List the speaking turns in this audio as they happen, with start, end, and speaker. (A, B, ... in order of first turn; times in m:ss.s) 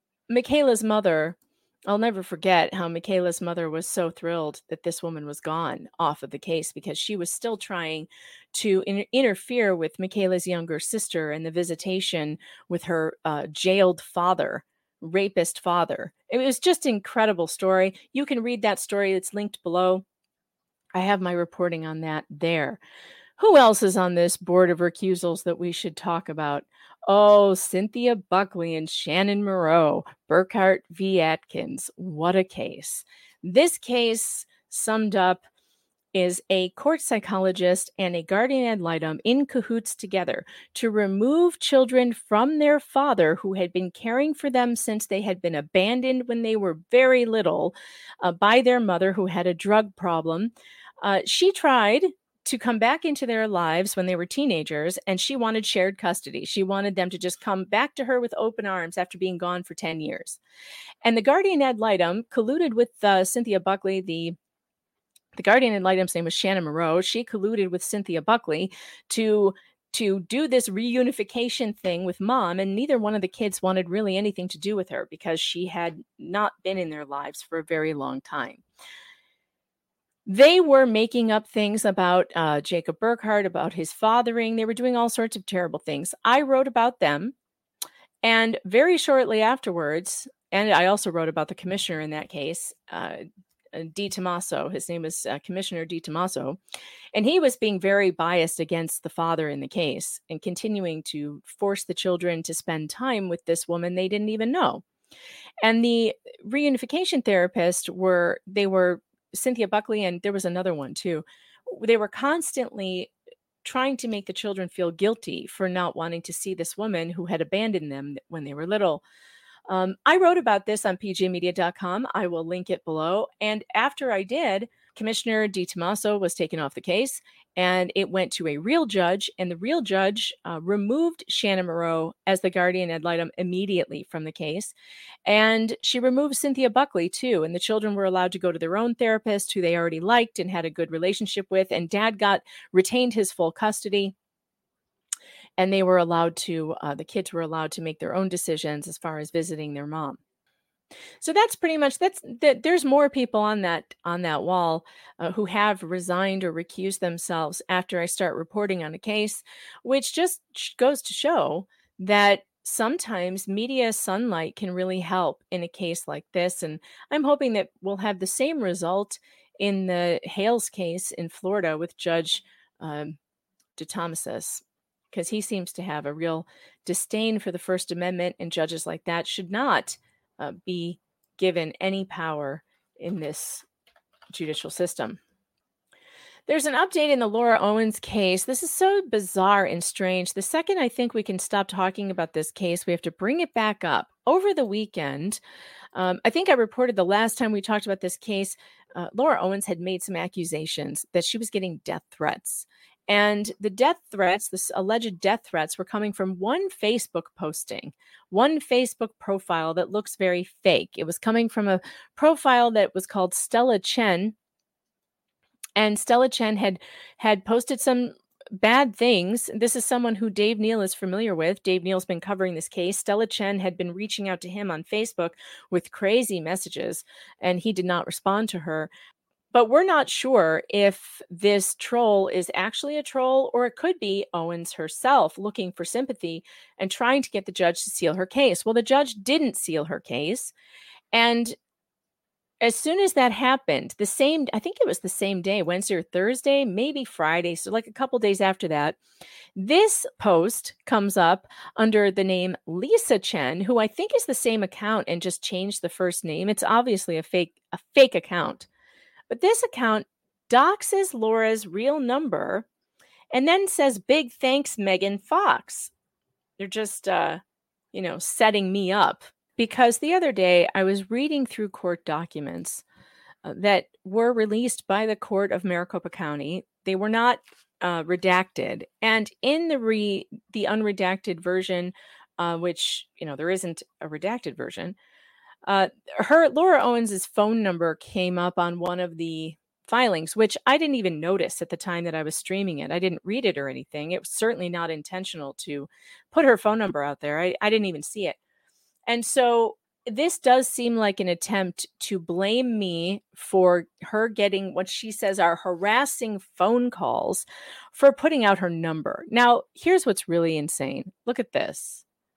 0:00.3-0:20.0 A
0:20.9-0:22.8 A
0:23.4-0:35.4 A
0:36.1-1:00.4 A
1:01.0-1:04.4 A
1:05.4-1:18.6 A
1:20.2-1:27.4 A
1:28.2-1:36.6 A
1:37.1-1:44.8 A
1:45.6-1:53.1 A
1:53.6-1:59.0 A
1:59.7-2:14.7 A
2:15.2-2:24.1 A
2:25.6-2:30.2 A
2:31.2-2:53.2 A
2:53.8-3:03.6 A
3:04.3-3:05.2 A
3:06.5-3:15.4 A
3:16.0-3:34.3 A
3:35.8-3:48.9 A
3:49.5-4:00.5 A
4:01.1-4:01.6 A
4:02.6-4:09.0 A
4:09.6-4:18.7 A
4:19.3-4:22.7 A
4:23.3-4:25.9 A
4:26.6-4:27.4 A
4:27.9-4:32.8 A
4:33.4-4:45.0 A
4:45.6-4:58.4 A
4:59.1-5:12.0 A